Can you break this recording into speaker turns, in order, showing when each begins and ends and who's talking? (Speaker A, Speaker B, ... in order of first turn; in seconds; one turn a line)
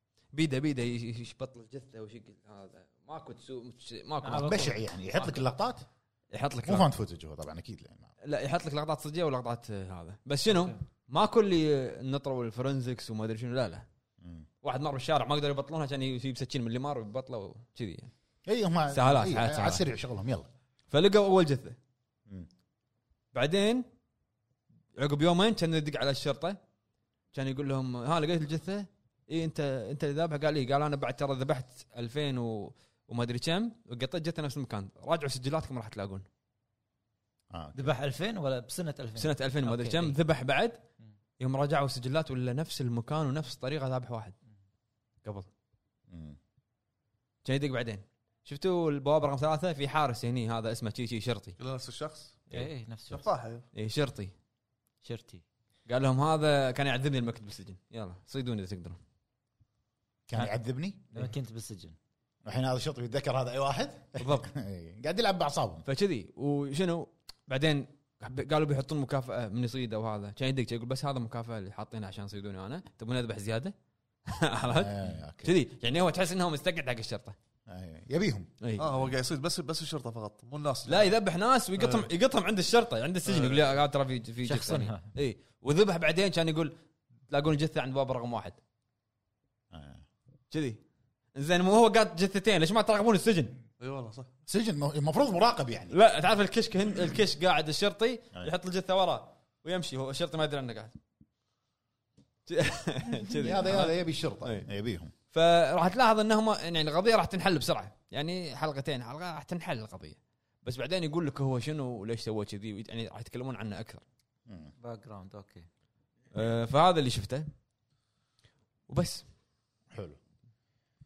Speaker A: 0.3-5.3
Speaker B: 4.2-4.7
Speaker C: 4.4-5.8
Speaker A: 6.3-6.9
Speaker C: 6.6-8.1
Speaker A: 8.2-13.8
Speaker C: 14.2-14.5
Speaker A: 14.6-18.1
Speaker C: 18.5-20.5
Speaker A: 18.9-19.8
Speaker A: 20.9-21.8
Speaker A: 23.3-23.9
Speaker A: 25.0-26.6
Speaker A: 27.3-36.3
Speaker C: 37.5-37.9
Speaker B: 37.8-40.2
Speaker A: 39.2-40.8
Speaker A: 41.4-44.4
Speaker C: 46.1-46.4
Speaker A: 47.4-51.6
Speaker D: 51.6-52.4
Speaker B: 52.5-53.2
Speaker D: 53.1-53.7
Speaker A: 53.7-54.3
Speaker B: 55.0-55.4
Speaker A: 55.9-59.0
Speaker C: 60.3-61.1
Speaker B: 61.1-62.0
Speaker C: 62.5-65.9
Speaker A: 64.2-64.5
Speaker A: 65.9-73.7
Speaker A: 74.3-77.4
Speaker C: 74.7-75.5
Speaker C: 77.7-78.5
Speaker A: 78.6-78.9
Speaker D: 78.8-81.1
Speaker A: 80.9-86.8
Speaker D: 81.8-82.1
Speaker D: 83.2-83.7
Speaker B: 84.5-85.0
Speaker A: 87.3-88.6
Speaker C: 89.7-90.0
Speaker A: 90.5-90.8
Speaker A: 91.3-93.6
Speaker D: 93.8-94.3
Speaker C: 94.5-96.0
Speaker A: 95.9-101.0
Speaker A: 102.5-104.7
Speaker C: 103.3-105.1
Speaker A: 105.3-114.0
Speaker C: 114.5-114.7
Speaker B: 114.8-115.7
Speaker A: 116.3-117.5
Speaker A: 118.9-119.2
Speaker C: 119.9-120.2